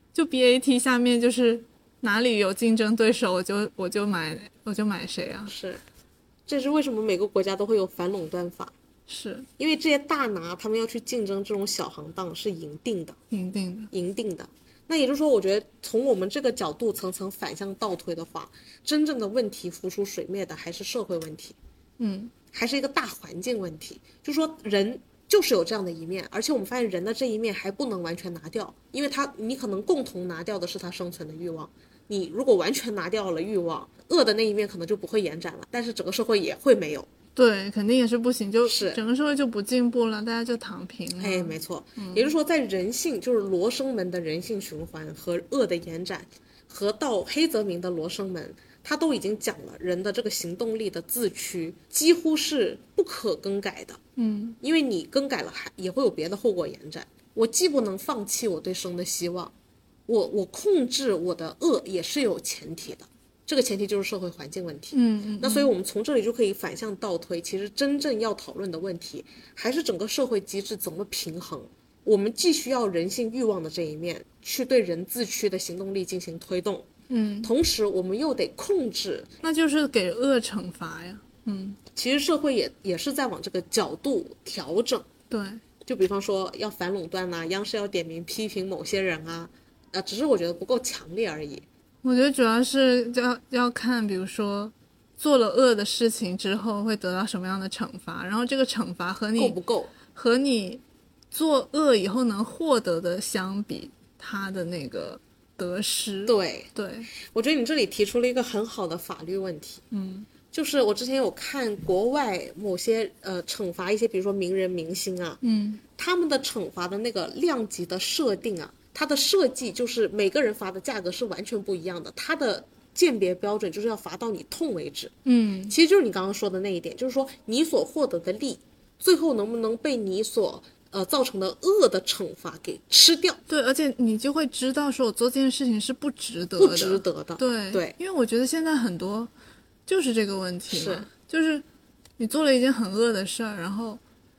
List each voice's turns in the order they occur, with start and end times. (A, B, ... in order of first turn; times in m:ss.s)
0:00.1-0:05.5 A
0:05.5-0:05.8 B
0:06.5-0:08.7 B
0:09.1-0:09.5 A
0:09.6-0:13.2 B
0:13.3-0:13.9 A
0:13.9-0:21.6 B
0:22.0-0:22.3 A
0:22.5-0:37.1 B
0:37.4-0:42.3 A
0:38.7-0:39.0 B
0:41.2-0:54.0 B
0:54.2-0:54.6 A
0:54.6-0:59.5 B
1:00.1-1:16.9 B
1:04.9-1:05.7 A
1:17.1-1:17.5 A
1:17.4-1:19.3 B
1:19.4-1:21.8 A
1:21.9-1:25.1 B
1:25.3-1:25.6 A
1:25.9-1:31.6 B
1:32.0-1:39.6 A
1:39.4-1:39.9 B
1:40.1-1:47.1 A
1:46.3-1:49.8 B
1:49.9-1:50.3 A
1:50.5-1:55.4 B
1:55.4-1:55.8 A
1:56.0-2:05.1 B
2:05.2-2:05.8 A
2:05.7-2:13.4 B
2:13.5-2:19.3 A
2:16.6-2:18.0 B
2:19.9-2:21.6 A
2:20.7-2:21.1 B
2:22.2-2:24.0 A